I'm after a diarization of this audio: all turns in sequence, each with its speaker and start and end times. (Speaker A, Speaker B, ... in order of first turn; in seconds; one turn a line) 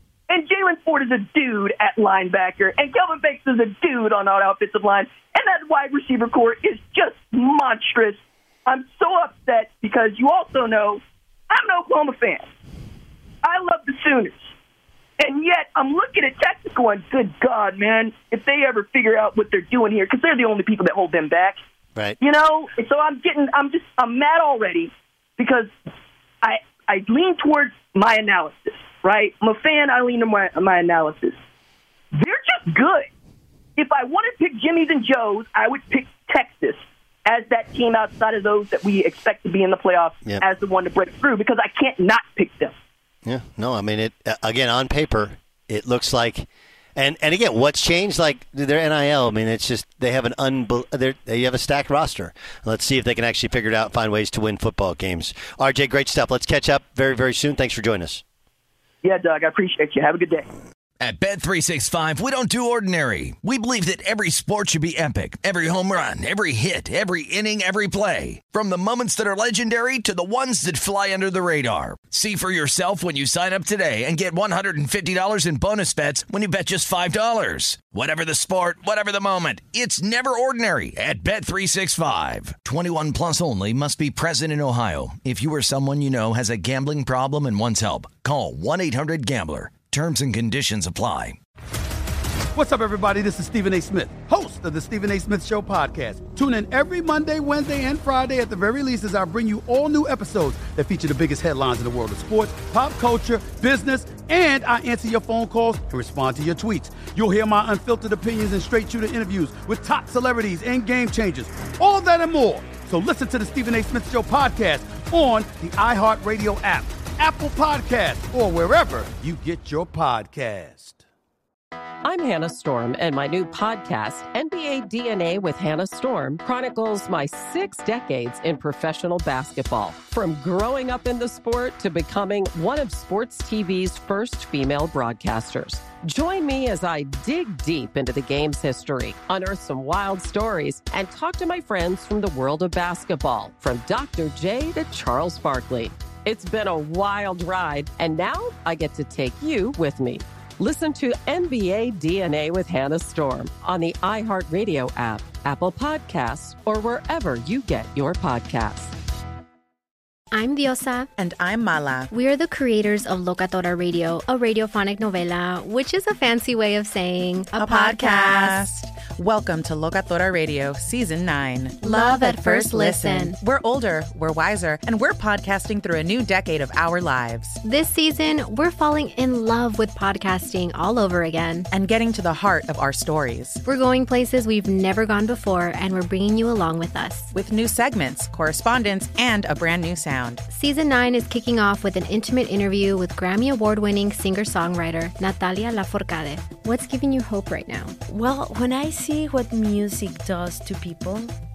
Speaker A: 0.3-12.4
Speaker A: 13.4-14.5
Speaker A: 15.2-21.6
Speaker A: 22.2-25.7
Speaker A: 26.4-31.4
Speaker A: 32.1-33.1
Speaker A: 33.8-42.7
Speaker B: 43.2-58.2
Speaker A: 59.0-60.5
Speaker C: 61.0-91.4
Speaker D: 92.5-121.0
Speaker E: 122.0-158.9
Speaker F: 160.3-161.1
Speaker G: 161.2-162.1
Speaker F: 162.1-168.6
Speaker G: 167.5-177.6
Speaker F: 171.8-173.3
Speaker F: 177.6-181.7
Speaker G: 181.7-183.6
Speaker F: 183.6-187.3
Speaker G: 187.3-190.4
Speaker F: 190.5-198.0
Speaker H: 198.1-201.3